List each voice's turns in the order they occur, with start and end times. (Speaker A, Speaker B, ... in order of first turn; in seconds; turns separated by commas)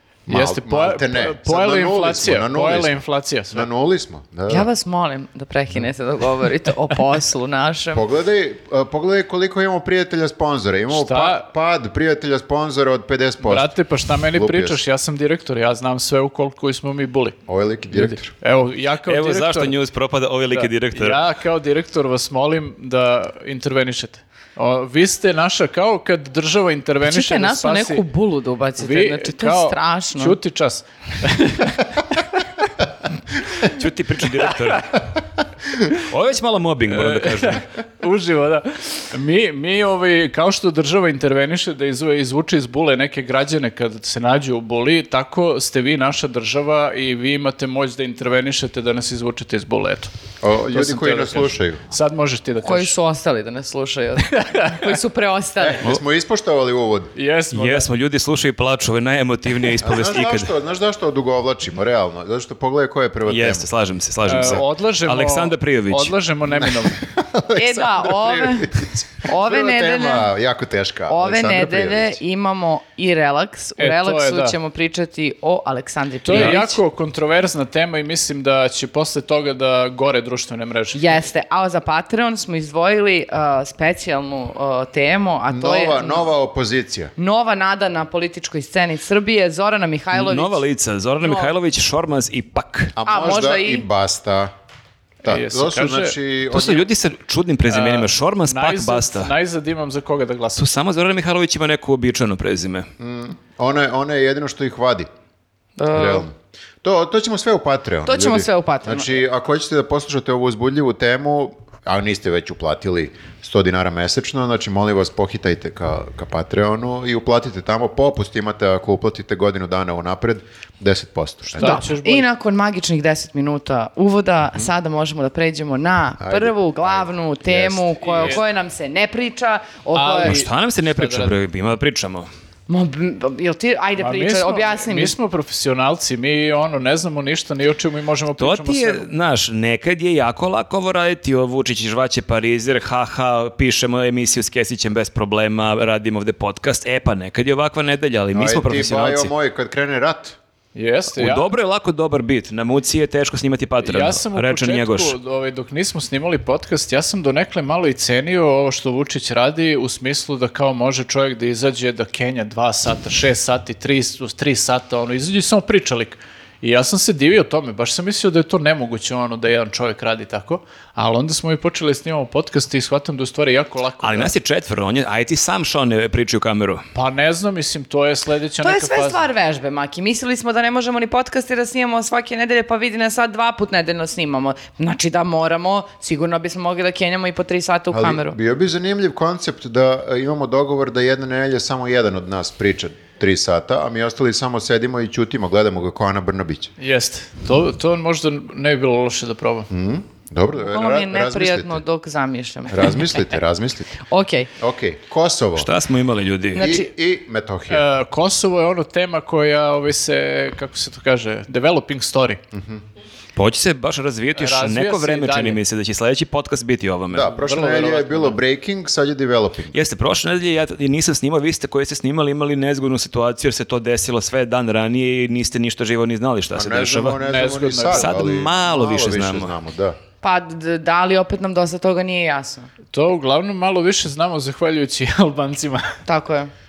Speaker A: 0.3-3.0, Speaker B: 0.3-3.7, Speaker A: 3.5-4.7, Speaker C: 4.5-8.0, Speaker A: 7.9-13.7, Speaker B: 10.9-11.5, Speaker B: 13.4-17.4, Speaker A: 14.3-14.8, Speaker A: 17.5-18.3, Speaker B: 17.9-19.8, Speaker D: 19.1-21.2, Speaker B: 20.5-28.0, Speaker C: 27.1-30.4, Speaker B: 28.8-32.2, Speaker D: 33.6-35.0, Speaker B: 34.4-34.8, Speaker D: 35.9-37.6, Speaker B: 36.9-50.1, Speaker A: 50.4-51.8, Speaker B: 50.7-52.9, Speaker C: 52.6-55.8, Speaker B: 54.3-54.9, Speaker A: 55.6-57.1, Speaker B: 57.1-57.9, Speaker D: 57.5-60.5, Speaker A: 59.8-63.7, Speaker D: 63.3-66.2, Speaker B: 64.2-67.0, Speaker A: 66.7-72.2, Speaker C: 67.5-70.3, Speaker C: 71.1-76.8, Speaker B: 73.8-74.6, Speaker B: 76.2-81.2, Speaker C: 80.9-86.2, Speaker A: 85.5-87.1, Speaker C: 87.2-90.6, Speaker D: 90.1-92.9, Speaker C: 91.2-91.5, Speaker A: 93.0-94.5, Speaker C: 93.0-93.8, Speaker A: 95.2-96.9, Speaker B: 95.2-96.1, Speaker D: 96.5-99.3, Speaker B: 97.7-100.6, Speaker D: 100.5-102.9, Speaker A: 103.0-105.1, Speaker C: 105.8-106.2, Speaker A: 105.9-106.3, Speaker A: 106.8-121.8, Speaker C: 108.0-109.2, Speaker B: 121.5-122.2, Speaker C: 121.6-130.4, Speaker A: 126.2-128.4, Speaker B: 128.1-128.4, Speaker B: 129.9-131.3, Speaker D: 130.2-132.3, Speaker C: 132.7-135.1, Speaker B: 134.0-139.1, Speaker D: 138.4-149.3, Speaker A: 148.3-150.3, Speaker B: 150.7-151.5, Speaker D: 151.1-155.2, Speaker B: 153.8-174.3, Speaker D: 174.0-176.8, Speaker B: 176.9-179.2, Speaker C: 178.6-188.3, Speaker A: 187.9-196.7, Speaker B: 196.8-199.7, Speaker A: 199.7-201.8, Speaker C: 200.6-203.2, Speaker A: 202.7-204.0, Speaker C: 204.0-204.5, Speaker A: 204.6-205.7, Speaker D: 205.6-206.7, Speaker C: 206.5-206.9, Speaker A: 206.6-207.8, Speaker B: 207.7-212.4, Speaker A: 212.5-212.8, Speaker D: 213.3-217.3, Speaker B: 214.3-215.6, Speaker A: 217.1-219.8, Speaker B: 217.2-218.4, Speaker D: 219.7-227.2, Speaker A: 226.5-230.0, Speaker B: 227.2-228.2, Speaker D: 227.9-229.5, Speaker C: 230.2-232.7, Speaker B: 232.9-235.9, Speaker C: 236.1-236.5